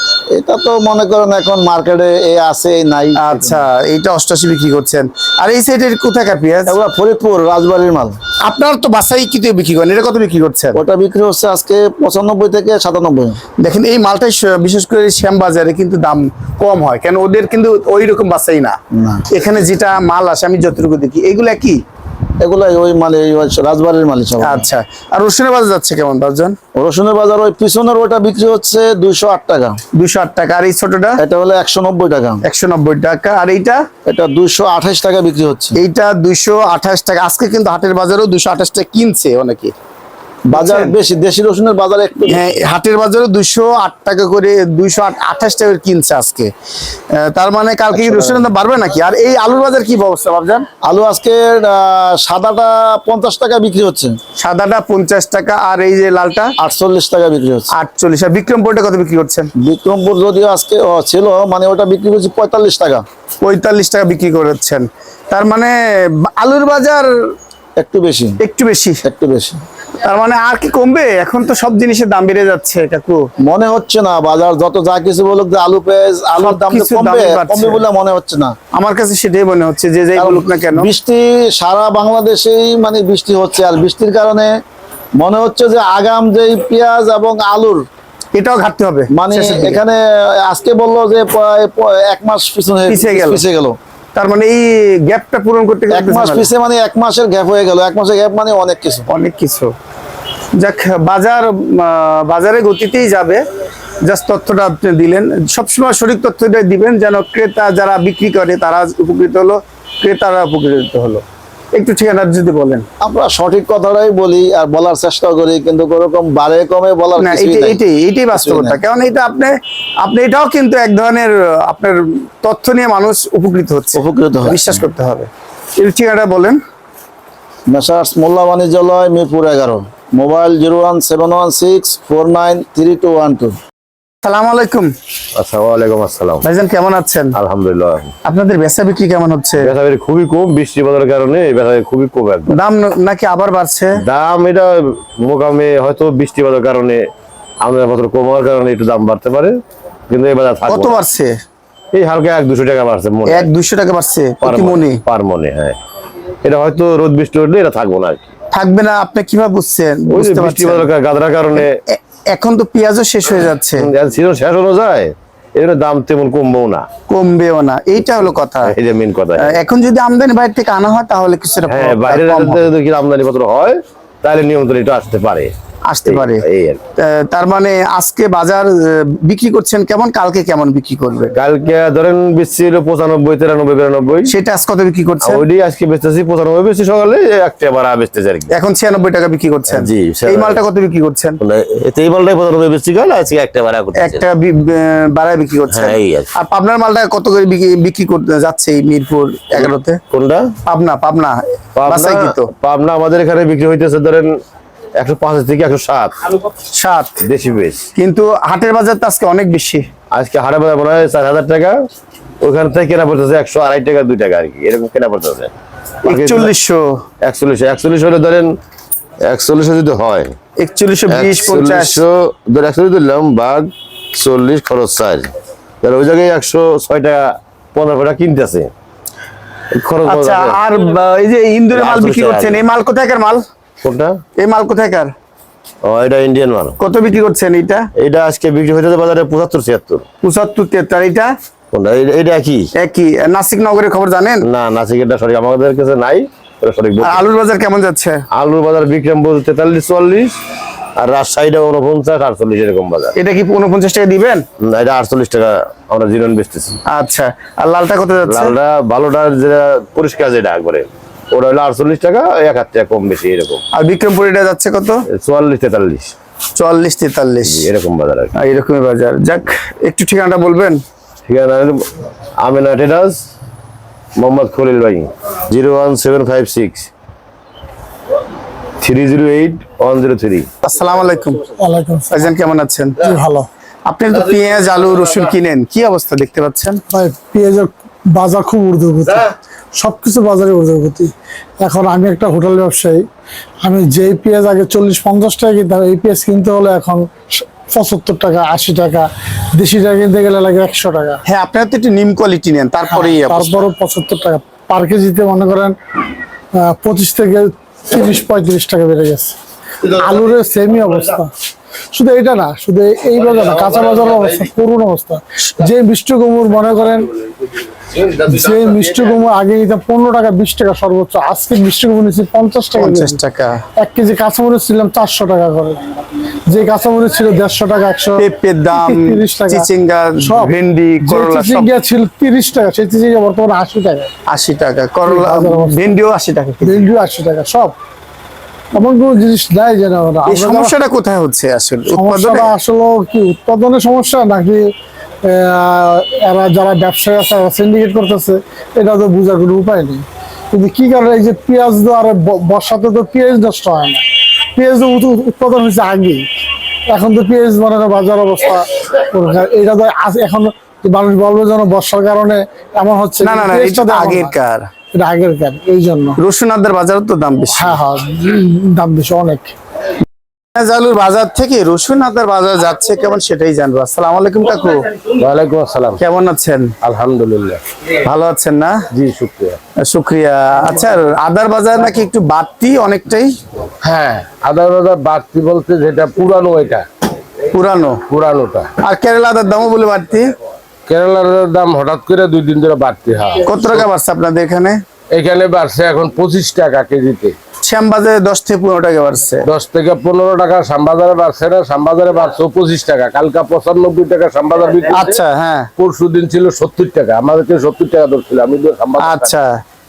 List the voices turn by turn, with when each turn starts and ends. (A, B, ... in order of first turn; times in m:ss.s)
0:00.3-0:03.6 A
0:03.1-0:06.8 B
0:06.7-0:08.2 A
0:08.4-0:10.8 B
0:10.7-0:13.4 A
0:13.6-0:18.8 B
0:18.9-0:19.3 A
0:19.3-0:21.8 B
0:22.4-0:24.7 A
0:24.4-0:26.6 B
0:26.8-0:29.8 A
0:29.9-0:31.2 B
0:31.2-0:32.4 A
0:32.4-0:33.8 B
0:34.0-0:35.8 A
0:35.7-0:39.7 B
0:40.5-0:40.9 B
0:40.5-0:42.4 A
0:42.3-0:46.5 B
0:47.1-0:50.6 B
0:47.9-0:48.5 A
0:50.8-0:54.2 A
0:54.4-0:56.5 B
0:56.6-0:57.7 A
0:57.7-0:59.5 B
0:59.6-1:03.0 A
1:03.4-1:07.1 B
1:07.8-1:08.4 A
1:08.4-1:09.0 B
1:09.0-1:09.6 A
1:10.0-1:13.2 B
1:13.4-1:18.6 A
1:16.3-1:17.8 B
1:18.7-1:20.9 B
1:20.1-1:24.5 A
1:25.2-1:27.8 A
1:28.3-1:29.8 B
1:29.1-1:33.8 A
1:32.8-1:33.4 B
1:34.1-1:36.5 B
1:35.9-1:39.0 A
1:39.1-1:39.7 B
1:40.6-1:43.4 B
1:44.0-1:52.8 B
1:53.0-1:58.8 A
1:57.2-2:06.6 B
2:04.0-2:04.8 A
2:07.7-2:13.6 A
2:14.2-2:14.9 B
2:15.4-2:16.4 C
2:16.4-2:17.3 B
2:17.4-2:18.1 C
2:18.2-2:19.7 B
2:19.6-2:22.5 C
2:22.5-2:24.0 B
2:24.0-2:27.0 C
2:27.6-2:29.5 C
2:30.1-2:31.0 C
2:30.7-2:31.4 B
2:31.9-2:33.5 C
2:33.3-2:35.0 B
2:34.4-2:35.8 C
2:36.4-2:38.2 C
2:38.5-2:40.9 B
2:40.1-2:41.7 C
2:41.6-2:43.9 B
2:43.8-2:46.8 C
2:47.1-2:48.8 B
2:48.6-2:49.6 C
2:49.4-2:52.6 B
2:51.7-2:55.5 C
2:55.8-2:56.4 B
2:56.0-2:56.8 C
2:57.0-3:01.3 B
3:01.3-3:04.3 C
3:04.3-3:05.4 B
3:05.2-3:08.5 C
3:08.5-3:11.4 B
3:09.7-3:10.6 C
3:11.4-3:14.2 C
3:14.0-3:20.0 B
3:15.7-3:16.3 C
3:19.5-3:20.5 C
3:20.6-3:22.5 B
3:21.8-3:24.3 C
3:25.0-3:26.1 C
3:26.7-3:27.2 B
3:27.2-3:27.8 C
3:28.0-3:29.9 B
3:30.1-3:31.7 C
3:32.4-3:35.5 C
3:36.0-3:36.5 C
3:36.0-3:37.0 B
3:37.2-3:38.5 C
3:39.2-3:40.3 C
3:40.6-3:42.0 B
3:41.1-3:45.3 C
3:45.8-3:48.7 C
3:49.7-3:50.6 C
3:50.0-3:53.4 B
3:51.7-3:52.6 C
3:53.8-3:54.2 C
3:54.4-3:55.1 B
3:55.8-3:56.8 C
3:56.8-3:57.9 B
3:58.0-4:00.0 C
4:00.2-4:01.3 B
4:01.7-4:02.7 C
4:02.8-4:04.4 B
4:04.4-4:07.3 C
4:07.0-4:08.2 B
4:08.3-4:10.3 C
4:11.0-4:13.1 C
4:13.2-4:14.4 B
4:14.6-4:16.8 C
4:16.9-4:18.5 B
4:18.3-4:23.6 C
4:23.7-4:25.0 B
4:25.1-4:26.1 C
4:26.6-4:27.7 B
4:27.4-4:28.3 C
4:28.4-4:30.8 B
4:31.3-4:31.8 C
4:32.4-4:33.2 C
4:34.2-4:36.9 C
4:38.8-4:40.5 C
4:40.6-4:41.4 B
4:41.6-4:42.3 D
4:42.1-4:43.0 B
4:43.0-4:43.5 D
4:43.8-4:46.8 B
4:46.9-4:53.0 D
4:53.6-5:01.2 D
5:01.2-5:03.7 B
5:02.9-5:05.7 D
5:06.5-5:11.3 D
5:11.9-5:17.1 D
5:18.2-5:23.2 D
5:22.8-5:23.6 B
5:23.8-5:25.8 D
5:26.5-5:29.7 D
5:28.2-5:31.7 B
5:30.2-5:34.1 D
5:34.3-5:36.8 B
5:35.0-5:36.0 D
5:36.6-5:37.7 D
5:38.7-5:40.8 D
5:40.3-5:42.5 B
5:41.9-5:44.7 D
5:45.2-5:56.3 D
5:56.9-6:04.4 D
6:03.2-6:04.7 B
6:04.9-6:06.2 D
6:06.2-6:07.8 B
6:07.5-6:09.6 D
6:10.6-6:14.9 B
6:15.1-6:16.0 E
6:16.0-6:16.7 B
6:16.8-6:17.6 E
6:18.0-6:18.8 B
6:18.9-6:19.6 E
6:19.8-6:23.4 B
6:23.8-6:26.8 E
6:27.5-6:28.0 B
6:28.1-6:28.7 E
6:28.8-6:30.3 B
6:30.9-6:33.8 E
6:33.4-6:34.8 B
6:35.1-6:37.4 E
6:37.6-6:39.5 B
6:39.4-6:45.2 E
6:44.9-6:45.7 B
6:45.8-6:49.3 E
6:49.0-6:49.6 B